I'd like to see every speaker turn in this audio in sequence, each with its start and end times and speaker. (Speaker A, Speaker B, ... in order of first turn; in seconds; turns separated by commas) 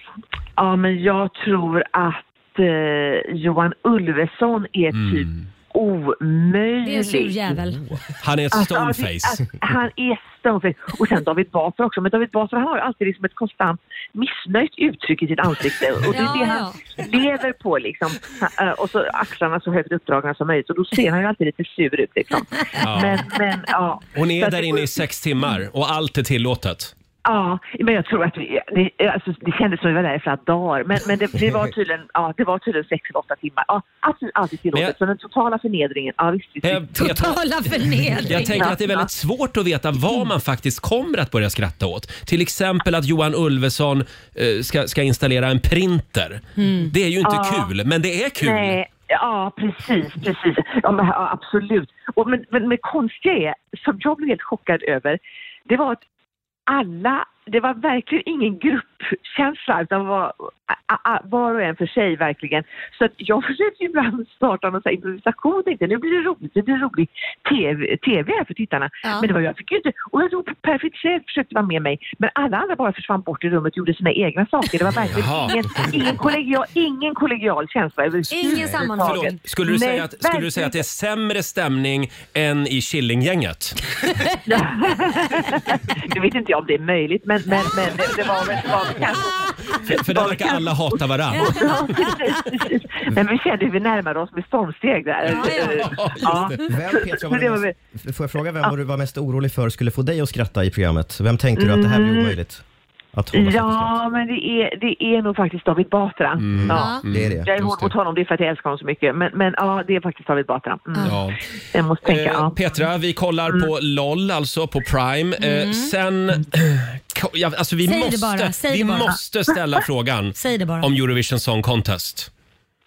Speaker A: 0.6-7.4, Speaker B: 4.9-5.5, Speaker C: 6.8-7.8, Speaker B: 8.2-9.4, Speaker A: 8.5-25.0, Speaker C: 16.1-16.8, Speaker B: 22.8-23.3, Speaker B: 24.1-26.9, Speaker A: 27.2-36.9, Speaker B: 36.6-37.4, Speaker C: 36.9-38.7, Speaker B: 38.2-48.8, Speaker A: 38.5-39.1, Speaker C: 46.6-46.9, Speaker A: 47.2-47.7, Speaker A: 48.4-56.0, Speaker A: 56.7-80.8, Speaker C: 69.0-69.3, Speaker B: 75.1-76.0, Speaker C: 78.3-79.4, Speaker B: 78.4-83.8, Speaker A: 84.5-97.7, Speaker B: 89.8-91.9, Speaker C: 91.3-92.1, Speaker C: 95.2-96.1, Speaker B: 95.5-96.5, Speaker D: 96.6-102.6, Speaker A: 101.6-102.3, Speaker D: 103.1-104.0, Speaker A: 103.3-111.1, Speaker B: 106.4-107.9, Speaker D: 106.5-107.5, Speaker C: 106.7-107.0, Speaker B: 111.0-111.4, Speaker A: 111.7-112.6, Speaker B: 112.0-122.3, Speaker C: 115.4-115.9, Speaker C: 117.8-119.2, Speaker C: 120.3-120.9